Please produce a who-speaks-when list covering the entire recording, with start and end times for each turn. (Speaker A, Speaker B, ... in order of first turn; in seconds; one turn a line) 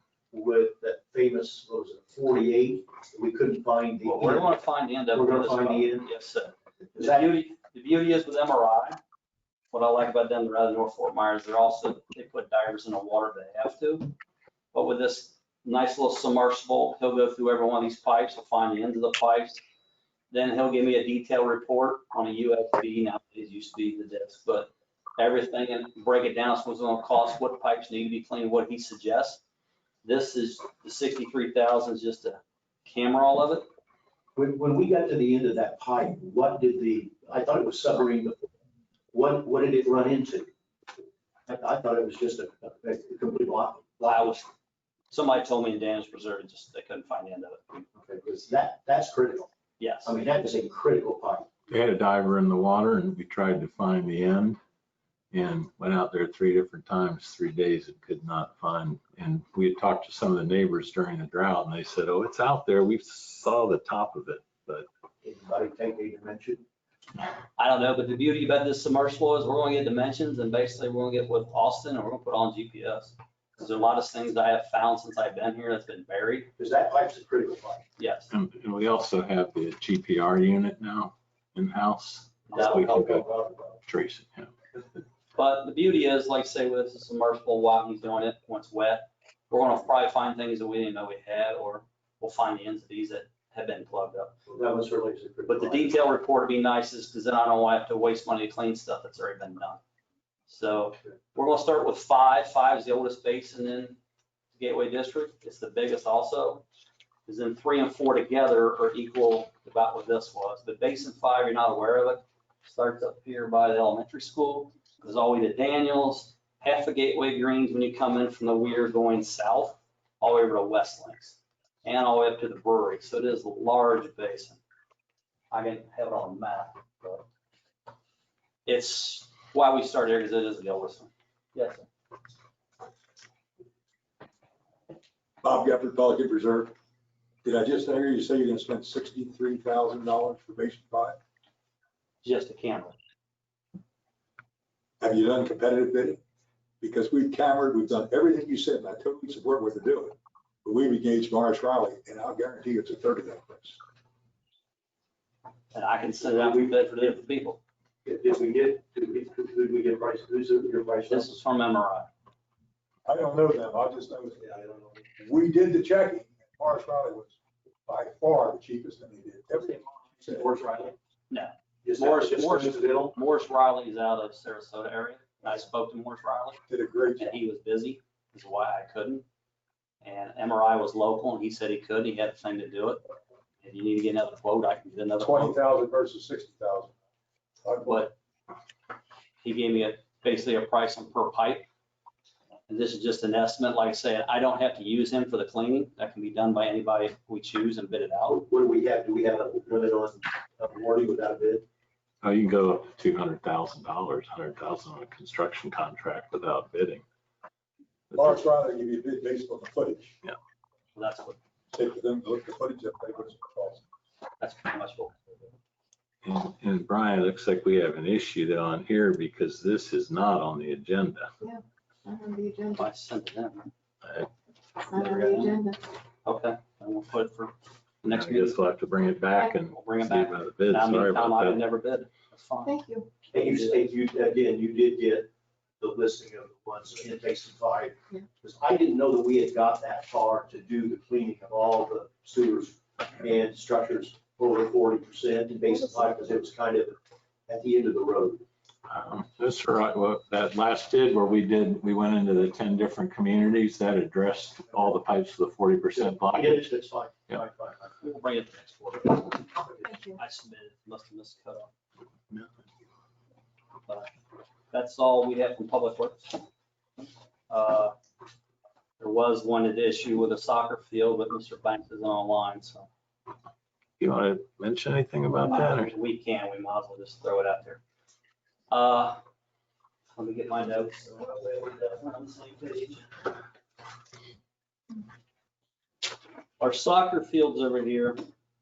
Speaker A: 0.3-4.5
Speaker B: 4.0-9.0
Speaker A: 5.1-6.1
Speaker A: 6.9-7.3
Speaker B: 9.7-14.1
Speaker B: 14.7-19.6
Speaker B: 20.3-29.4
Speaker B: 30.0-33.7
Speaker A: 34.4-38.5
Speaker A: 39.1-40.5
Speaker A: 41.5-44.0
Speaker B: 44.0-44.5
Speaker B: 45.1-47.8
Speaker A: 48.0-49.5
Speaker B: 49.8-50.1
Speaker A: 50.0-51.5
Speaker C: 51.7-54.6
Speaker C: 55.3-64.9
Speaker A: 65.2-66.6
Speaker B: 67.6-76.5
Speaker A: 76.6-77.8
Speaker B: 78.0-78.3
Speaker C: 78.3-83.3
Speaker B: 82.5-82.8
Speaker A: 82.5-83.8
Speaker C: 83.8-84.5
Speaker B: 85.3-94.3
Speaker A: 94.5-95.9
Speaker B: 95.5-99.8
Speaker B: 100.5-104.0
Speaker B: 104.5-106.6
Speaker B: 107.2-124.6
Speaker B: 125.5-127.2
Speaker B: 128.6-131.8
Speaker D: 135.4-136.7
Speaker D: 137.4-141.2
Speaker B: 142.2-142.9
Speaker D: 145.0-146.2
Speaker D: 146.8-153.8
Speaker B: 155.7-157.6
Speaker A: 156.3-156.7
Speaker A: 158.0-161.3
Speaker B: 161.1-162.1
Speaker D: 163.0-164.6
Speaker A: 164.4-165.0
Speaker D: 165.2-170.5
Speaker A: 170.2-170.9
Speaker B: 171.3-176.6
Speaker A: 171.8-173.1
Speaker D: 176.7-177.3
Speaker B: 177.2-179.2
Speaker B: 180.0-183.0
Speaker B: 183.6-185.6
Speaker D: 185.2-186.9
Speaker D: 187.6-188.0
Speaker B: 187.8-188.1
Speaker B: 189.4-191.7
Speaker B: 192.7-198.4
Speaker A: 198.4-201.6
Speaker C: 202.2-207.0
Speaker D: 208.1-210.2
Speaker B: 210.9-211.4
Speaker D: 211.7-213.8
Speaker B: 214.4-215.2
Speaker C: 216.2-221.3
Speaker E: 221.4-222.8
Speaker B: 222.7-223.7
Speaker C: 224.0-224.3
Speaker E: 224.8-225.8
Speaker A: 224.9-225.4
Speaker B: 225.0-225.5
Speaker B: 226.2-228.6
Speaker C: 228.1-231.6
Speaker B: 229.7-232.8
Speaker E: 232.6-233.1
Speaker A: 233.3-235.3
Speaker B: 233.3-233.9
Speaker A: 235.8-246.9
Speaker A: 247.5-248.4
Speaker C: 248.9-256.7
Speaker A: 255.9-257.9
Speaker B: 258.0-261.7
Speaker E: 259.9-260.1
Speaker B: 264.7-266.4
Speaker B: 267.5-267.9
Speaker B: 269.0-272.9
Speaker C: 274.0-275.9
Speaker B: 275.5-277.8
Speaker B: 278.7-279.2
Speaker B: 280.1-283.1
Speaker B: 286.6-288.2